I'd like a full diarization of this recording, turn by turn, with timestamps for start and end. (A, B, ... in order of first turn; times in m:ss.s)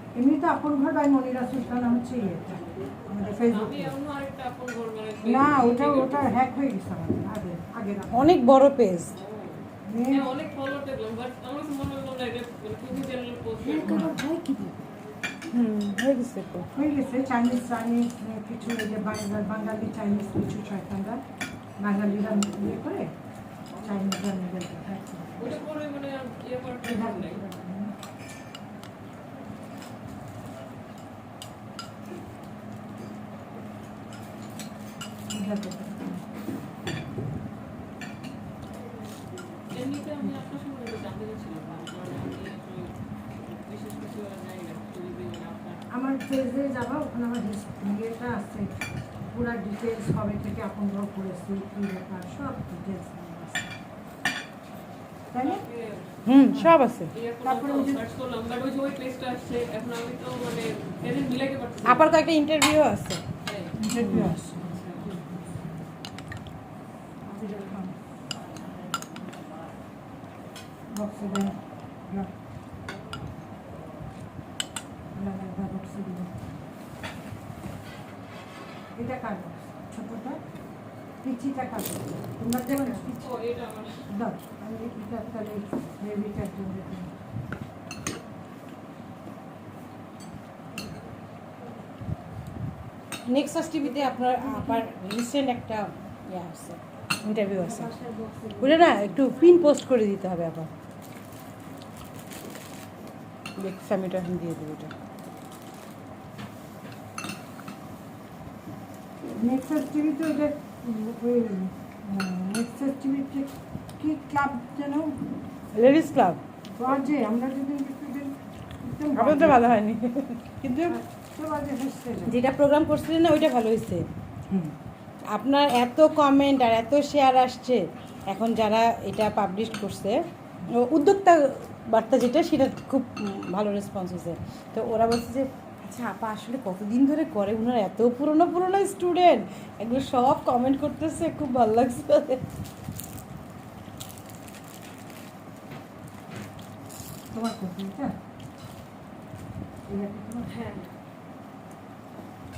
0:00.1-0:04.0 A
0:03.2-0:06.4 B
0:05.2-0:08.4 A
0:08.1-0:09.1 C
0:09.2-0:14.1 B
0:09.8-0:10.3 A
0:13.6-0:14.2 A
0:13.8-0:14.8 C
0:15.5-0:16.7 C
0:16.7-0:21.2 A
0:21.8-0:23.1 A
0:23.8-0:25.6 A
0:25.4-0:27.4 B
0:26.8-0:27.9 A
0:35.3-0:36.2 A
0:39.7-0:45.8 B
0:45.9-0:53.7 A
0:55.3-0:55.6 A
0:55.4-0:56.2 B
0:56.2-0:57.1 C
0:56.3-0:56.8 A
0:57.1-1:02.1 B
0:57.4-0:58.0 A
1:01.8-1:03.2 C
1:03.4-1:03.8 B
1:03.8-1:05.6 A
1:04.0-1:04.4 C
1:04.6-1:05.1 B
1:07.3-1:07.9 A
1:10.9-1:11.6 A
1:15.1-1:16.3 A
1:19.0-1:20.4 A
1:21.2-1:23.2 A
1:22.7-1:23.3 C
1:23.2-1:24.1 B
1:24.1-1:27.1 A
1:33.2-1:37.9 C
1:34.3-1:34.8 A
1:37.5-1:39.6 A
1:38.6-1:40.7 C
1:43.6-1:44.9 C
1:49.4-1:55.2 A
1:55.7-1:56.4 C
1:56.8-1:59.7 A
1:59.2-2:00.9 C
2:00.8-2:02.4 A
2:02.2-2:04.1 C
2:05.3-2:22.4 C
2:27.3-2:28.1 A
2:29.9-2:30.6 A
2:30.5-2:30.9 B